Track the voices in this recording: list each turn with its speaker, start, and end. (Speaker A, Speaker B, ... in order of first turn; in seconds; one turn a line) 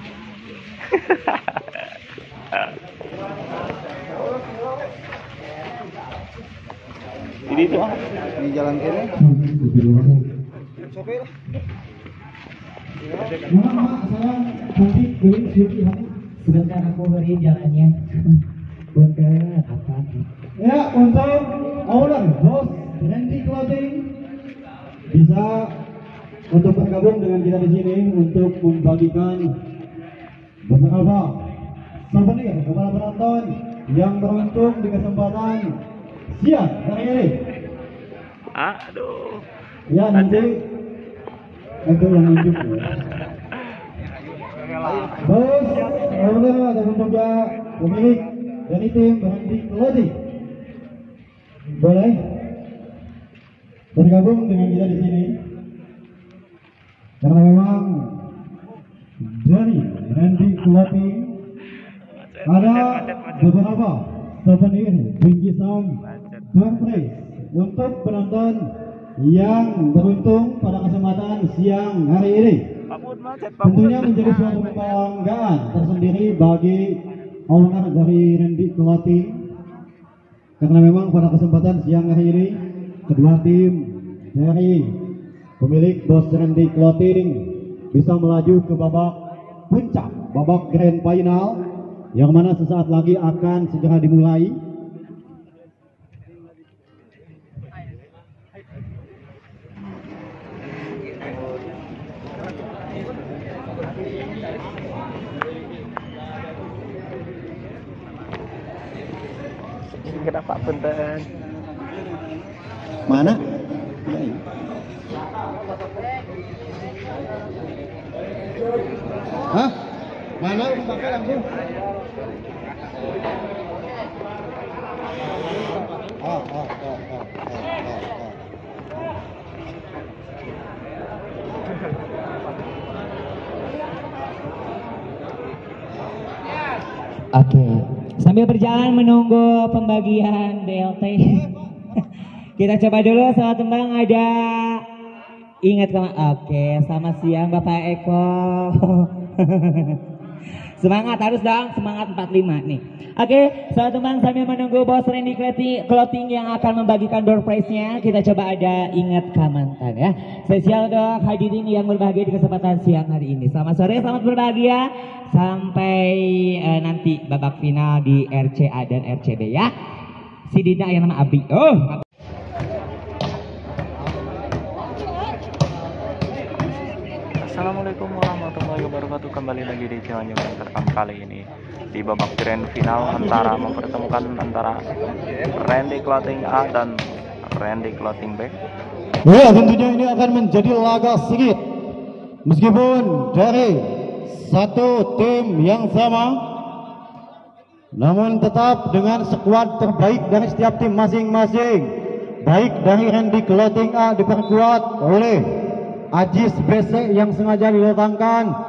Speaker A: 0.9-1.9
Speaker A: 7.5-8.0
Speaker B: 9.2-10.2
Speaker C: 13.5-16.1
Speaker B: 16.4-18.4
Speaker B: 18.9-20.2
Speaker C: 20.6-24.1
Speaker C: 25.1-25.7
Speaker C: 26.5-29.5
Speaker C: 30.7-31.3
Speaker C: 32.1-35.7
Speaker C: 36.3-37.3
Speaker A: 38.5-39.5
Speaker C: 39.9-40.6
Speaker C: 41.9-42.9
Speaker C: 45.2-50.1
Speaker C: 51.7-52.1
Speaker C: 54.0-55.3
Speaker C: 57.2-58.1
Speaker C: 59.2-61.3
Speaker A: 62.2-63.6
Speaker C: 62.5-66.0
Speaker A: 66.0-66.5
Speaker C: 66.5-68.6
Speaker C: 69.2-72.6
Speaker A: 72.9-74.9
Speaker C: 73.6-76.8
Speaker C: 77.5-79.4
Speaker C: 80.6-82.5
Speaker C: 83.1-84.8
Speaker C: 85.6-87.4
Speaker C: 87.9-89.2
Speaker C: 89.7-91.6
Speaker C: 92.2-94.5
Speaker A: 110.0-111.3
Speaker C: 113.1-113.4
Speaker C: 114.1-114.4
Speaker C: 120.4-121.4
Speaker C: 126.2-128.3
Speaker B: 137.3-141.5
Speaker B: 142.6-144.8
Speaker B: 145.6-150.0
Speaker B: 150.8-169.7
Speaker B: 170.5-171.9
Speaker A: 177.4-184.8
Speaker A: 185.6-186.9
Speaker A: 187.5-188.5
Speaker C: 189.2-191.6
Speaker C: 192.5-196.3
Speaker C: 198.0-201.9
Speaker C: 202.4-205.4
Speaker C: 206.2-208.5